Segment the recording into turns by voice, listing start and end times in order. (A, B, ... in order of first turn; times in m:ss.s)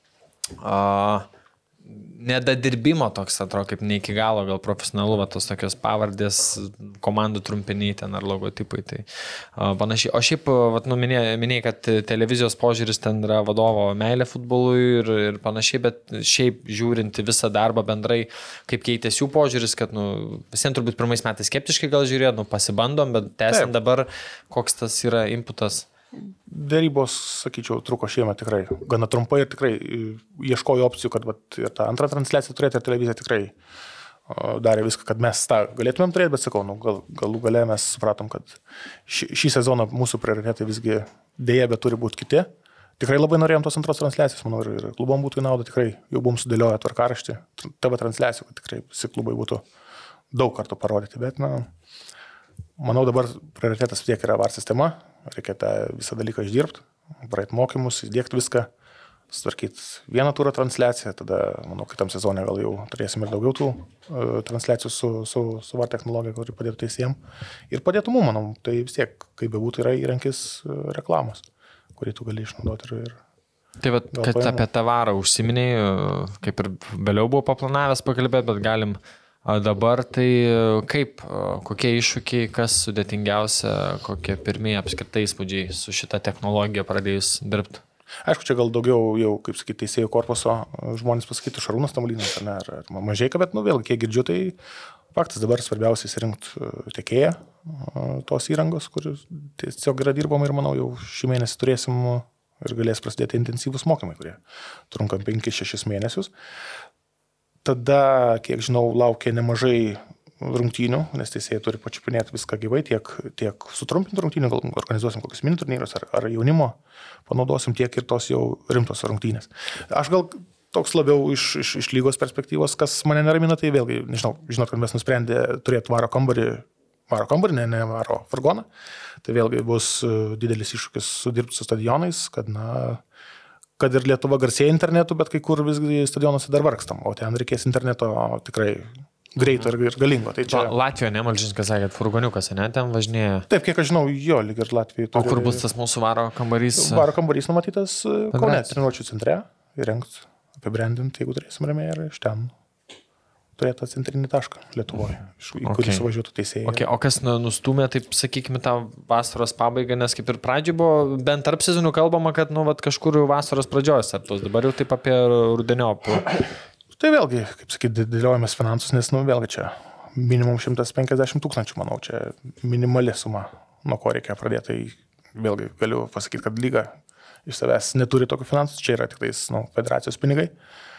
0:00.6-0:01.3 A
0:01.9-0:09.0 A
0:09.6-0:25.9 A
0:26.2-0:33.5 B
0:34.3-0:42.5 B
0:43.0-0:49.6 B
0:50.3-0:51.7 B
0:52.8-0:58.7 B
0:59.3-1:07.2 B
1:07.7-1:11.4 B
1:12.0-1:13.2 B
1:13.8-1:27.8 A
1:14.1-1:14.6 B
1:28.2-1:34.6 B
1:35.1-1:46.3 B
1:47.6-2:08.7 B
2:09.2-2:13.0 B
2:13.8-2:20.7 B
2:20.5-2:23.5 A
2:23.5-2:25.6 B
2:25.1-2:27.1 A
2:26.7-2:32.5 B
2:28.3-2:28.8 A
2:33.6-2:36.8 B
2:35.6-2:36.1 A
2:36.6-2:46.4 A
2:47.0-3:00.5 B